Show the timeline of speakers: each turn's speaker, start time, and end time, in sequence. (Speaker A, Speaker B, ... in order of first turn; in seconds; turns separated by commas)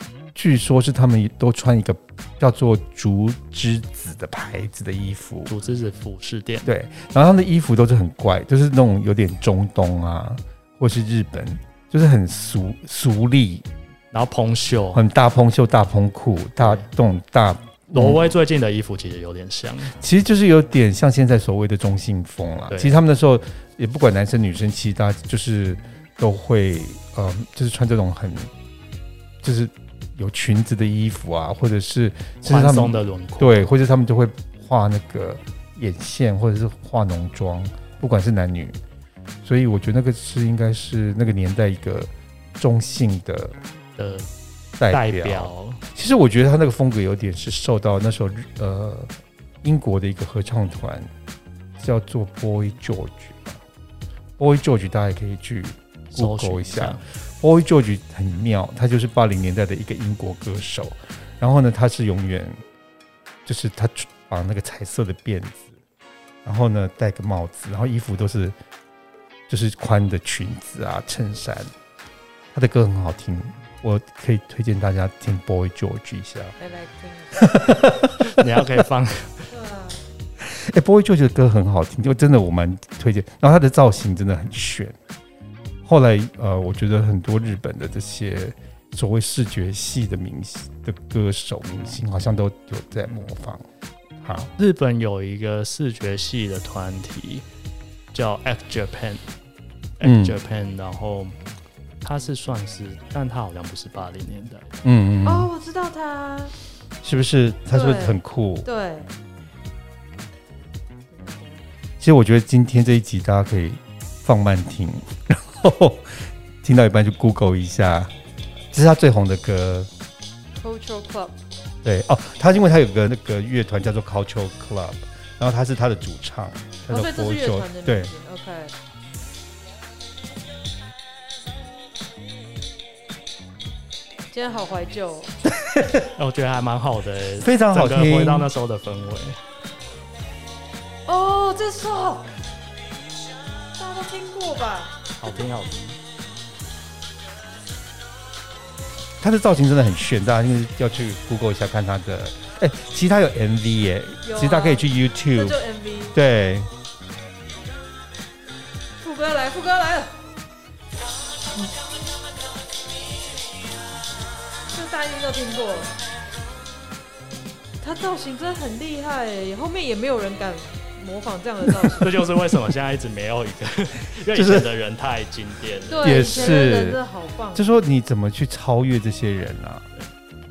Speaker A: 0.3-5.5, Speaker B: 5.5-6.7, Speaker A: 6.6-13.7, Speaker B: 14.1-15.0, Speaker A: 14.9-18.4, Speaker B: 16.6-16.9, Speaker B: 17.9-20.0, Speaker A: 20.0-28.5, Speaker B: 22.7-22.9, Speaker A: 29.4-38.8, Speaker B: 32.4-33.7, Speaker A: 39.4-43.6, Speaker B: 44.0-44.3, Speaker A: 44.8-51.1, Speaker B: 44.9-45.8, Speaker A: 51.8-53.6, Speaker A: 54.4-62.6, Speaker B: 56.1-57.0, Speaker A: 63.5-65.8, Speaker A: 66.4-68.5, Speaker A: 69.5-71.7, Speaker A: 72.5-76.5, Speaker C: 76.6-77.5, Speaker A: 77.3-78.8, Speaker B: 78.2-79.5, Speaker C: 79.5-80.0, Speaker A: 80.4-85.0, Speaker A: 85.8-93.7, Speaker A: 94.2-94.5, Speaker B: 94.6-97.4, Speaker B: 98.1-99.3, Speaker B: 100.0-101.3, Speaker A: 100.0-100.4, Speaker B: 102.0-104.7, Speaker A: 104.8-105.5, Speaker C: 105.2-106.5, Speaker A: 107.0-108.7, Speaker C: 107.7-109.1, Speaker C: 111.1-111.6, Speaker A: 112.0-118.1, Speaker A: 118.7-119.9, Speaker C: 120.6-121.3, Speaker A: 121.8-128.1, Speaker C: 126.9-128.7, Speaker C: 134.3-135.3, Speaker A: 135.4-136.1, Speaker B: 136.2-139.4, Speaker A: 137.4-138.5, Speaker C: 141.1-142.3, Speaker C: 143.8-144.9, Speaker B: 145.2-146.0, Speaker A: 149.2-155.6, Speaker C: 154.2-156.1, Speaker A: 156.1-156.7, Speaker C: 159.0-160.1, Speaker C: 164.7-165.9, Speaker C: 167.8-172.1, Speaker B: 172.0-176.7, Speaker A: 174.3-174.7, Speaker C: 175.9-177.7, Speaker A: 176.0-177.0, Speaker A: 177.5-179.9